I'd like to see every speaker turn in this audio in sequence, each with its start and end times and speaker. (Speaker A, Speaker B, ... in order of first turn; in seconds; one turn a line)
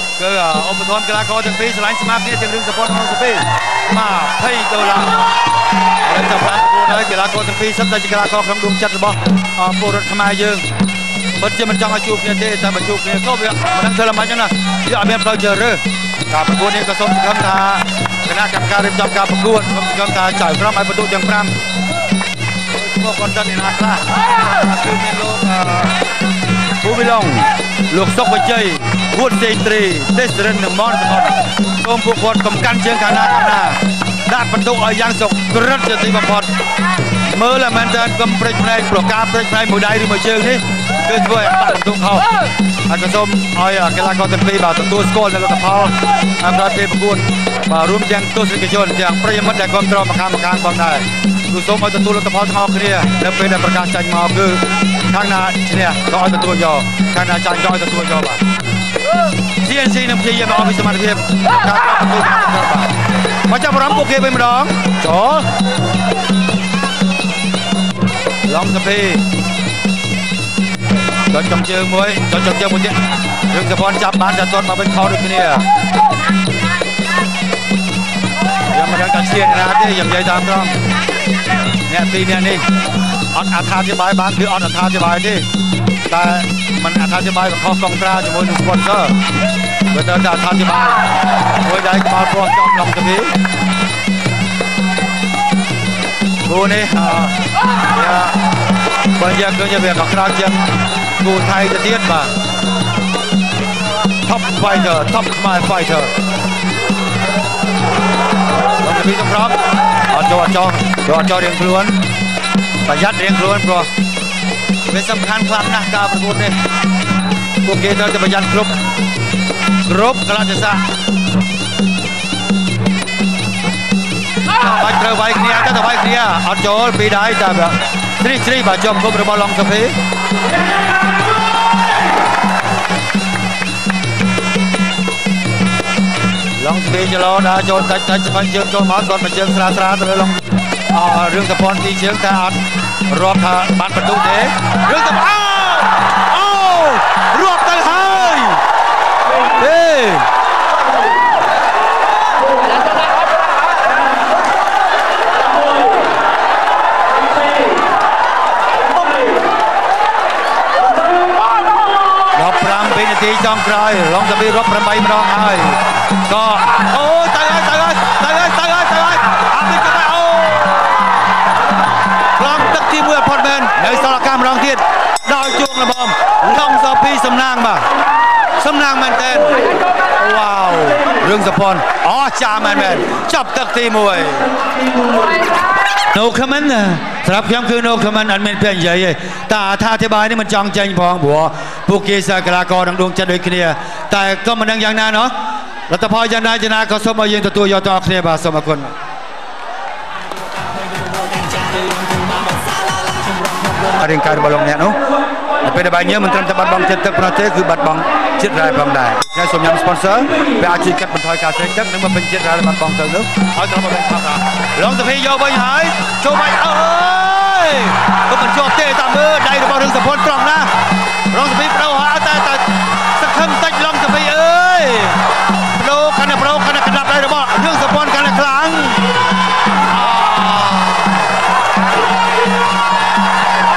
Speaker A: 0.2-5.2
Speaker A: 6.0-10.7
Speaker A: 11.4-21.5
Speaker A: 22.7-25.9
Speaker A: 26.8-36.5
Speaker A: 37.3-42.3
Speaker A: 42.9-58.4
Speaker A: 59.6-62.9
Speaker A: 63.5-65.5
Speaker A: 68.5-69.2
Speaker A: 71.3-73.0
Speaker A: 73.5-75.7
Speaker A: 78.7-80.8
Speaker A: 81.9-82.7
Speaker A: 83.3-85.5
Speaker A: 86.1-89.2
Speaker A: 89.9-91.0
Speaker A: 91.6-93.3
Speaker A: 96.5-97.4
Speaker A: 97.9-98.4
Speaker A: 99.2-100.7
Speaker A: 101.2-102.3
Speaker A: 104.2-106.1
Speaker A: 108.8-109.6
Speaker A: 110.1-112.0
Speaker A: 112.8-113.9
Speaker A: 114.9-116.5
Speaker A: 117.6-118.8
Speaker A: 119.8-120.8
Speaker A: 124.5-130.0
Speaker A: 136.6-148.6
Speaker A: 149.6-150.3
Speaker A: 162.3-170.9
Speaker A: 172.4-177.8
Speaker A: 178.6-179.6
Speaker A: 180.2-184.5
Speaker A: 186.1-195.3
Speaker A: 195.9-198.9
Speaker A: 203.9-205.0
Speaker A: 205.6-220.7
Speaker A: 221.3-229.0
Speaker A: 229.9-231.2